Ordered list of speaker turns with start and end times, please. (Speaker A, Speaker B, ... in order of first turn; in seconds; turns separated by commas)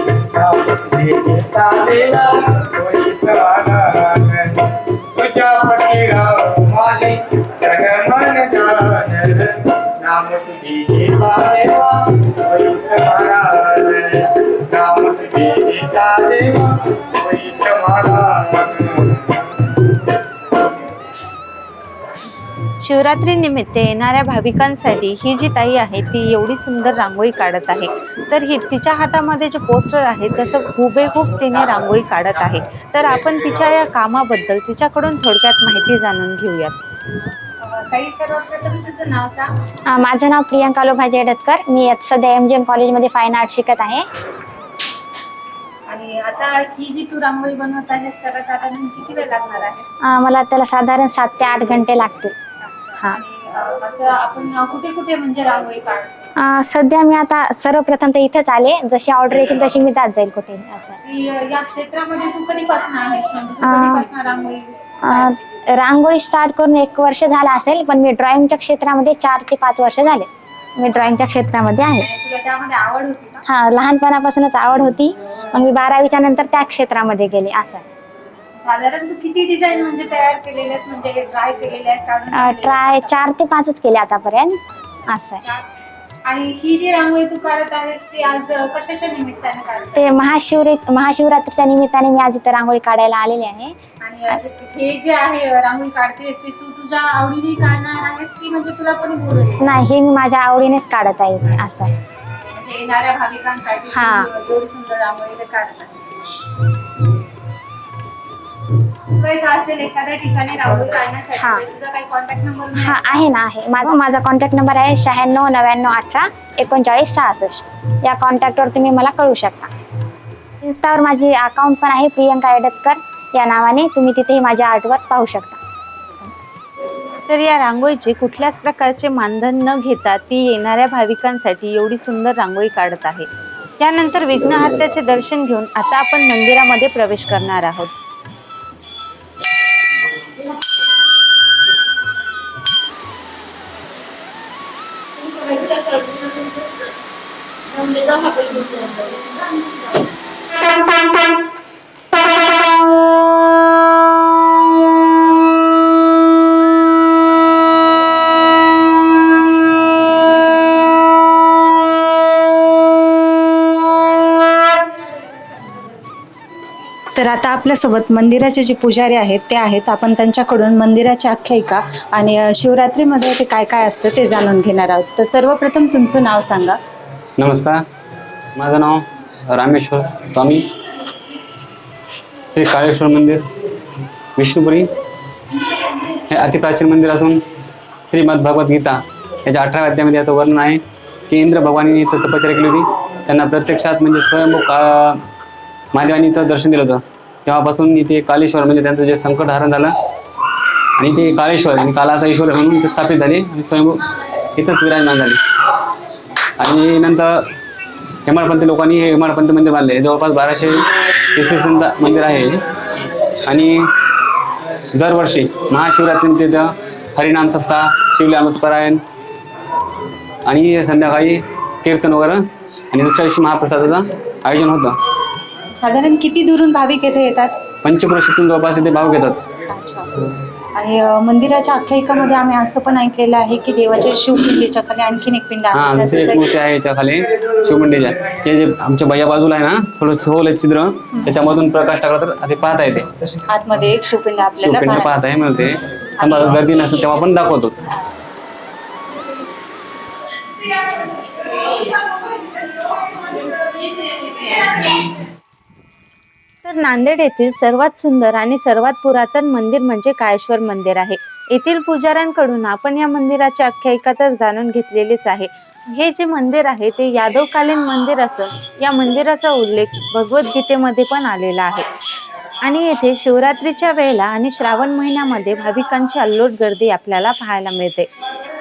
Speaker A: 0.3-19.8, Speaker B: 22.8-36.8, Speaker B: 37.6-39.5, Speaker C: 39.9-44.1, Speaker B: 45.9-49.9, Speaker C: 50.0-52.3, Speaker B: 52.6-56.1, Speaker C: 56.4-61.0, Speaker B: 61.0-65.3, Speaker C: 63.6-64.1, Speaker C: 65.0-72.1, Speaker B: 72.0-73.4, Speaker C: 73.5-77.9, Speaker B: 78.6-83.2, Speaker C: 82.3-85.4, Speaker B: 86.3-90.2, Speaker C: 90.0-93.8, Speaker B: 94.0-99.6, Speaker C: 99.6-101.9, Speaker B: 102.5-106.1, Speaker C: 103.9-104.3, Speaker B: 109.1-113.2, Speaker C: 111.4-111.6, Speaker C: 112.8-119.7, Speaker C: 120.6-125.6, Speaker B: 127.3-133.3, Speaker B: 133.8-137.9, Speaker B: 148.2-149.1, Speaker B: 167.2-176.8, Speaker D: 177.4-177.8, Speaker D: 178.6-180.7, Speaker D: 182.5-183.4, Speaker D: 184.4-184.9, Speaker D: 186.3-187.4, Speaker D: 188.1-195.2, Speaker D: 195.9-199.9, Speaker D: 201.0-204.0, Speaker D: 204.6-205.4, Speaker D: 206.6-207.4, Speaker D: 208.2-212.6, Speaker D: 213.4-213.9, Speaker D: 214.9-219.0, Speaker D: 220.4-225.0, Speaker B: 225.8-227.5, Speaker D: 227.8-229.4, Speaker B: 229.7-230.1, Speaker B: 230.7-236.5, Speaker D: 235.7-243.1, Speaker B: 243.5-245.1, Speaker D: 244.6-247.8, Speaker B: 256.6-271.9, Speaker B: 272.6-278.1